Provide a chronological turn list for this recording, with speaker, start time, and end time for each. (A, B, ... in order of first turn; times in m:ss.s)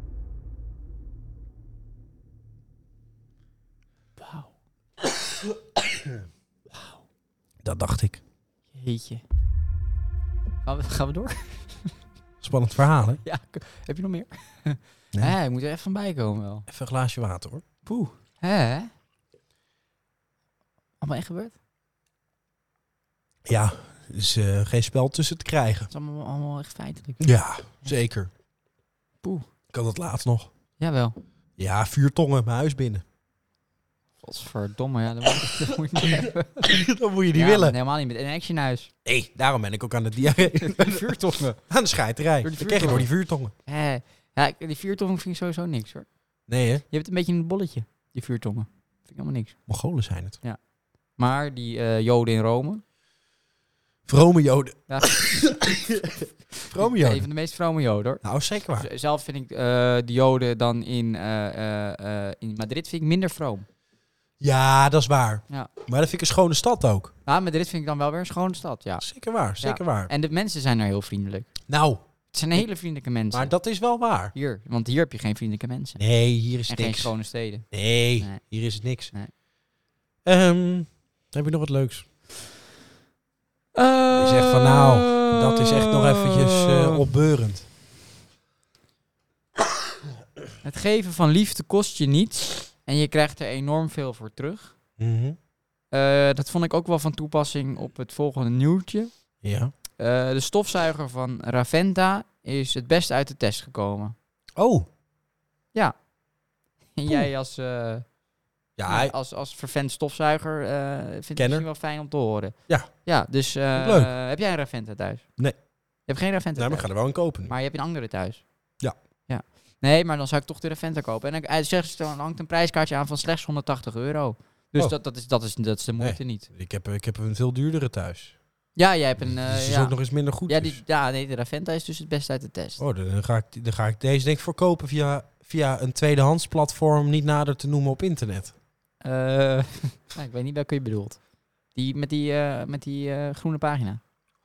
0:04.2-0:04.5 A
0:07.6-0:08.2 B
0:08.7-0:09.2 A
0:10.6-0:11.9 A
0:12.4-0:13.2 B
0:13.2-0:16.6 A
0:16.7-0:17.6 B
0:17.8-0:18.9 A
0:21.0-0:21.5 A
0:23.4-0:25.9 B
0:25.9-0:27.2 A
0:27.2-0:28.3 B
0:29.7-0:30.5 B
0:30.8-0:31.2 A
0:31.6-0:33.0 B
0:34.2-0:36.6 A
0:36.1-0:37.8 B
0:37.3-0:38.9 A
0:39.0-0:43.5 B
0:40.5-0:41.6 A
0:42.4-0:43.1 A
0:43.6-0:46.1 A
0:46.5-0:46.8 B
0:46.9-0:49.6 A
0:49.7-0:50.4 B
0:51.2-0:52.8 A
0:54.1-0:57.2 B
0:54.9-0:55.5 A
0:56.8-0:58.2 A
0:58.2-0:58.9 B
0:58.8-1:03.6 A
1:04.4-1:07.1 B
1:07.2-1:09.0 A
1:09.0-1:10.1 B
1:09.6-1:11.5 A
1:11.7-1:12.0 B
1:12.3-1:13.5 A
1:13.3-1:14.3 B
1:14.3-1:16.0 A
1:16.0-1:17.1 B
1:16.7-1:18.4 A
1:17.7-1:19.1 B
1:20.2-1:22.1 B
1:23.7-1:27.0 A
1:24.1-1:27.7 B
1:30.6-1:34.7 A
1:35.0-1:35.4 B
1:35.9-1:39.1 A
1:39.4-1:39.7 B
1:40.0-1:44.1 A
1:44.6-1:44.9 B
1:47.0-1:48.0 A
1:48.8-1:49.1 B
1:48.9-1:55.3 A
1:51.4-1:51.6 B
1:53.7-1:54.1 B
1:56.1-1:56.9 A
1:56.6-1:57.5 B
1:57.4-1:58.4 A
1:59.3-2:06.5 A
2:06.0-2:08.4 B
2:08.8-2:09.9 A
2:09.2-2:10.8 B
2:10.5-2:12.8 A
2:12.8-2:18.5 B
2:19.0-2:21.2 A
2:21.7-2:24.0 A